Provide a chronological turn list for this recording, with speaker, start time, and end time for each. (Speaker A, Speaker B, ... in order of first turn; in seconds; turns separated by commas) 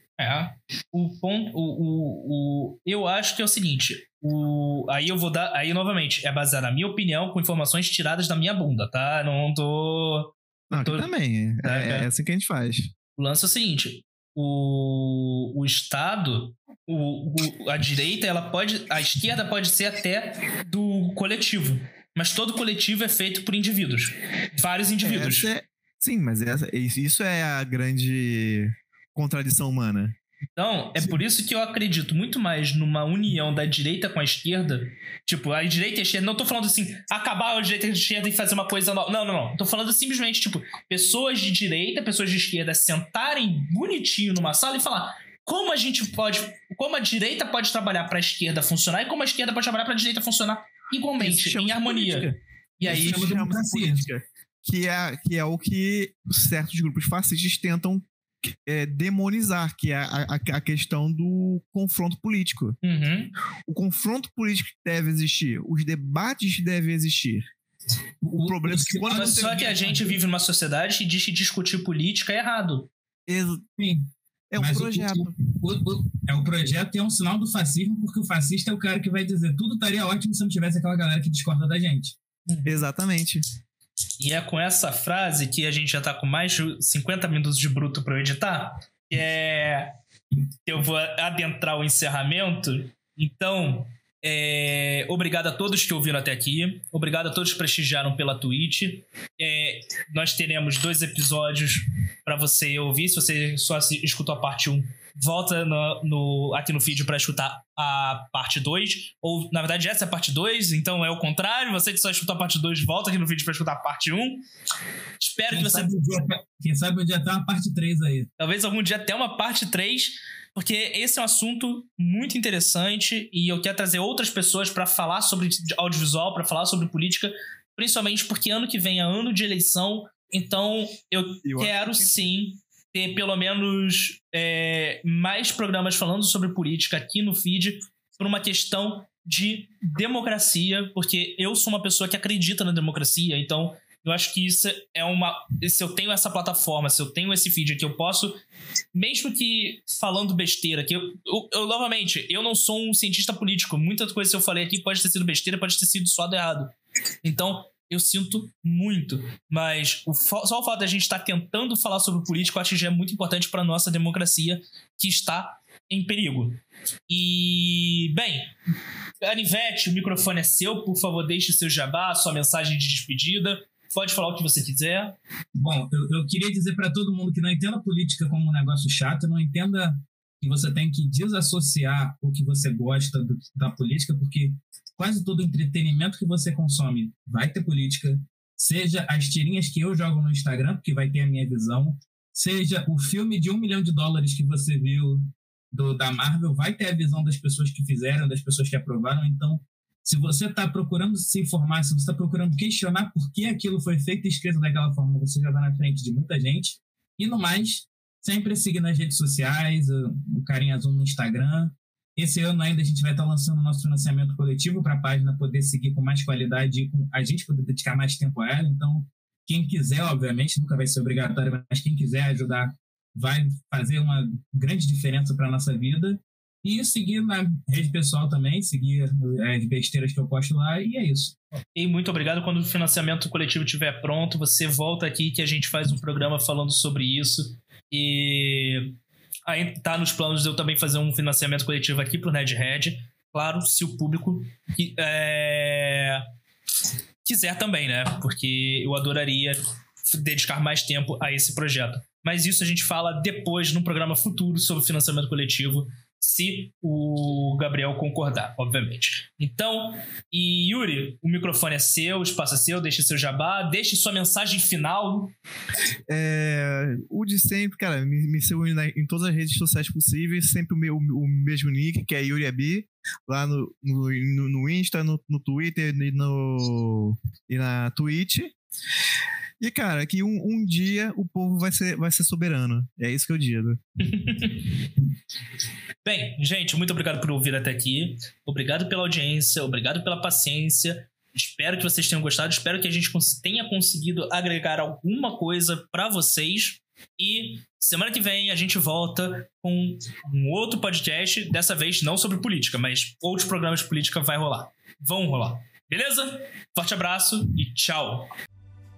Speaker A: 0.2-11.1, Speaker B: 10.7-12.9, Speaker A: 11.6-12.1, Speaker A: 13.2-25.5, Speaker B: 25.0-30.1, Speaker A: 30.6-53.3, Speaker B: 51.2-62.8, Speaker C: 52.9-54.0, Speaker A: 62.8-63.3, Speaker B: 63.7-67.5, Speaker C: 68.2-70.2, Speaker B: 68.4-69.6, Speaker A: 69.1-72.9, Speaker B: 73.3-73.6, Speaker C: 73.8-82.2, Speaker B: 74.5-75.3, Speaker A: 82.5-82.8, Speaker B: 82.6-83.4, Speaker A: 84.2-89.9, Speaker A: 90.6-114.4, Speaker A: 115.2-116.0, Speaker C: 115.5-118.3, Speaker A: 118.4-148.4, Speaker B: 131.4-132.2, Speaker A: 148.9-156.7, Speaker A: 157.2-168.5, Speaker A: 169.2-175.2, Speaker C: 175.5-231.3, Speaker A: 231.7-238.9, Speaker A: 239.5-246.2, Speaker A: 247.2-265.3, Speaker B: 266.1-278.5, Speaker B: 279.6-283.8, Speaker A: 284.0-284.7, Speaker A: 286.0-308.3